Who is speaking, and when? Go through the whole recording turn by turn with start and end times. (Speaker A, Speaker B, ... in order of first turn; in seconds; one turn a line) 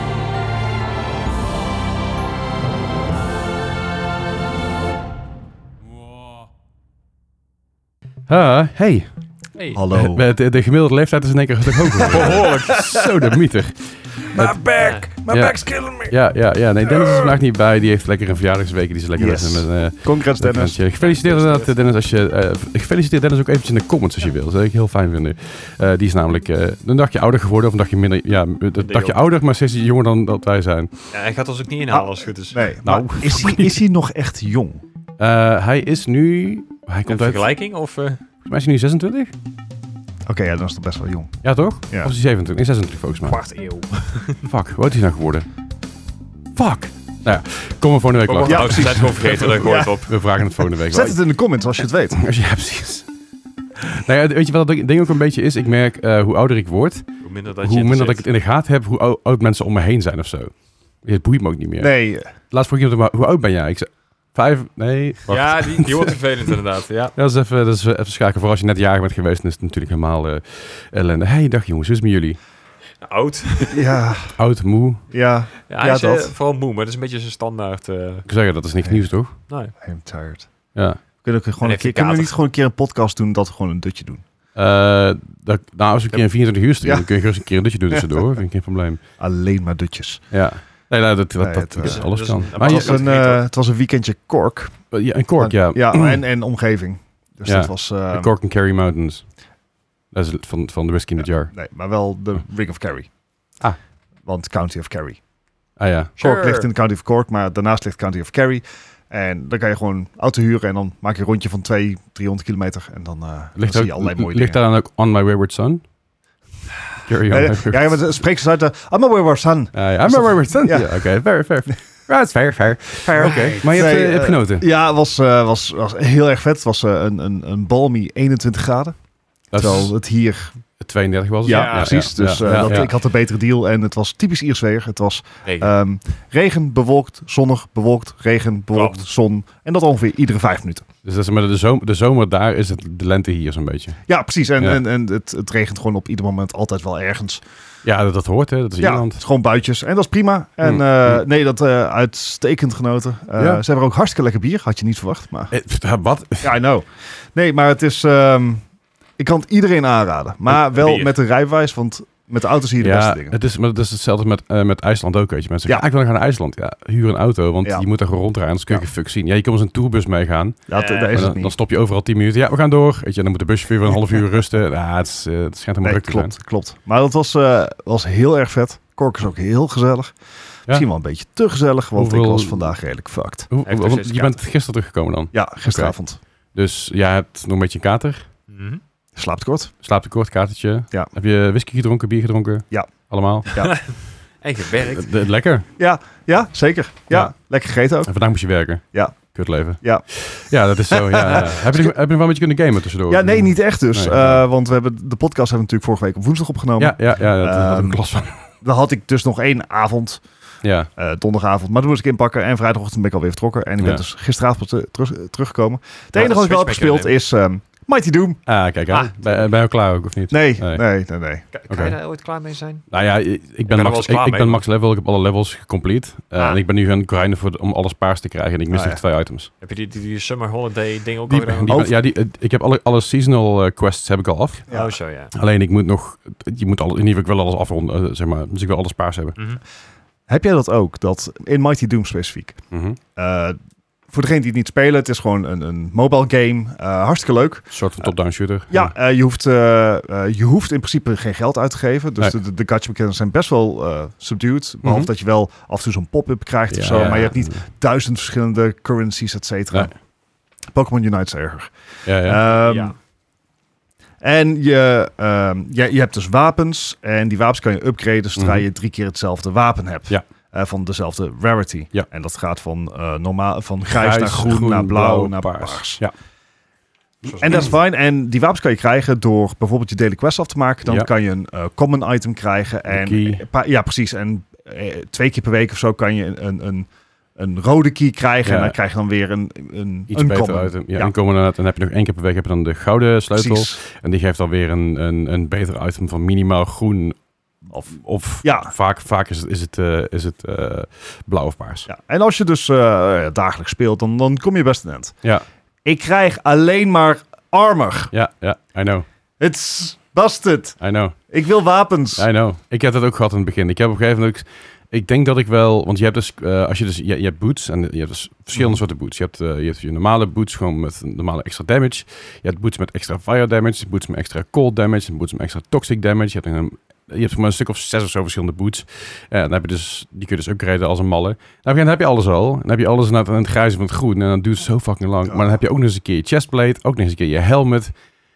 Speaker A: 8.3-9.1
Speaker B: 9.6-9.8
Speaker C: 9.7-10.2
Speaker A: 9.9-14.6
Speaker C: 11.9-13.1
Speaker B: 12.1-12.8
Speaker C: 14.3-16.1
Speaker B: 14.8-15.0
Speaker A: 15.3-31.1
Speaker C: 16.8-17.3
Speaker C: 19.2-20.8
Speaker B: 21.0-21.7
Speaker B: 28.8-29.2
Speaker B: 31.1-32.9
Speaker C: 31.9-34.8
Speaker A: 32.9-33.8
Speaker A: 35.2-37.5
Speaker B: 37.1-38.2
Speaker A: 38.4-39.3
Speaker C: 40.3-42.1
Speaker A: 41.4-43.4
Speaker B: 43.3-44.5
Speaker A: 44.4-45.5
Speaker A: 46.6-51.2
Speaker B: 48.2-50.2
Speaker C: 48.5-50.0
Speaker C: 50.9-52.2
Speaker A: 52.1-53.1
Speaker A: 53.9-57.0
Speaker B: 57.2-58.2
Speaker A: 57.6-66.2
Speaker C: 61.8-62.3
Speaker B: 65.3-67.1
Speaker A: 67.2-72.4
Speaker B: 73.0-73.9
Speaker C: 73.7-74.4
Speaker A: 74.4-75.0
Speaker C: 75.1-76.3
Speaker B: 75.7-78.3
Speaker A: 78.3-79.4
Speaker C: 78.8-79.1
Speaker C: 79.8-80.5
Speaker A: 80.8-81.0
Speaker C: 81.2-84.2
Speaker B: 81.6-82.3
Speaker A: 84.5-89.0
Speaker C: 86.8-87.1
Speaker C: 87.9-88.2
Speaker C: 89.2-90.2
Speaker A: 90.3-93.0
Speaker C: 91.4-94.8
Speaker B: 91.8-93.4
Speaker A: 94.9-96.2
Speaker C: 95.4-98.3
Speaker A: 97.5-99.3
Speaker A: 100.1-101.5
Speaker C: 101.5-103.1
Speaker C: 104.3-105.2
Speaker A: 105.8-106.2
Speaker B: 106.2-106.7
Speaker C: 106.2-114.6
Speaker A: 113.6-115.8
Speaker A: 117.0-118.0
Speaker C: 117.3-121.0
Speaker A: 119.7-124.7
Speaker C: 123.0-129.0
Speaker B: 123.2-123.6
Speaker A: 129.5-129.9
Speaker C: 129.6-130.6
Speaker A: 130.8-132.9
Speaker C: 131.4-140.8
Speaker B: 131.5-131.9
Speaker B: 135.4-135.7
Speaker B: 138.7-139.0
Speaker A: 141.0-144.0
Speaker C: 144.1-147.4
Speaker A: 147.8-149.2
Speaker C: 148.8-155.5
Speaker A: 150.6-151.2
Speaker A: 153.4-153.6
Speaker A: 155.5-156.6
Speaker C: 156.4-158.6
Speaker C: 159.2-163.4
Speaker A: 160.5-161.1
Speaker A: 162.8-176.3
Speaker C: 170.7-171.5
Speaker B: 170.7-171.2
Speaker C: 175.8-180.2
Speaker C: 180.7-183.5
Speaker A: 181.9-182.7
Speaker A: 183.5-186.0
Speaker B: 183.7-184.4
Speaker C: 185.3-186.2
Speaker A: 186.5-188.3
Speaker B: 188.5-188.8
Speaker C: 189.2-189.7
Speaker A: 189.8-193.8
Speaker C: 193.5-193.7
Speaker B: 193.5-195.2
Speaker A: 194.8-195.7
Speaker C: 195.8-198.1
Speaker A: 198.1-204.4
Speaker C: 198.9-200.1
Speaker C: 200.9-201.9
Speaker C: 203.1-208.0
Speaker A: 206.8-208.4
Speaker C: 208.5-210.2
Speaker A: 210.6-210.9
Speaker C: 211.0-218.4
Speaker A: 213.8-214.0
Speaker B: 216.1-217.1
Speaker A: 218.5-220.8
Speaker B: 218.9-219.4
Speaker C: 220.3-221.4
Speaker B: 221.5-222.9
Speaker A: 221.7-222.0
Speaker A: 222.9-229.5
Speaker B: 223.7-224.6
Speaker B: 226.4-226.6
Speaker C: 228.7-229.0
Speaker B: 229.6-231.8
Speaker A: 231.3-234.7
Speaker C: 231.7-231.9
Speaker C: 234.7-235.0
Speaker B: 234.7-235.3
Speaker A: 235.3-239.3
Speaker B: 239.4-239.6
Speaker C: 240.3-242.6
Speaker A: 242.7-243.0
Speaker C: 243.2-243.6
Speaker C: 244.1-248.1
Speaker A: 247.7-248.9
Speaker C: 248.7-259.9
Speaker A: 254.8-255.1
Speaker A: 256.7-257.6
Speaker C: 260.7-261.7
Speaker A: 262.1-262.4
Speaker C: 262.2-262.9
Speaker B: 262.5-263.0
Speaker C: 264.2-276.0
Speaker A: 268.4-268.7
Speaker A: 273.9-276.1
Speaker C: 277.4-291.1
Speaker A: 282.9-283.4
Speaker A: 288.4-288.8
Speaker A: 290.1-297.2
Speaker C: 293.3-293.8
Speaker C: 297.7-298.7
Speaker A: 297.9-301.9
Speaker C: 301.9-305.1
Speaker C: 305.9-308.1
Speaker A: 308.1-309.1
Speaker C: 309.4-312.2
Speaker A: 310.8-311.1
Speaker A: 312.2-337.9
Speaker C: 318.5-318.8
Speaker C: 335.3-335.6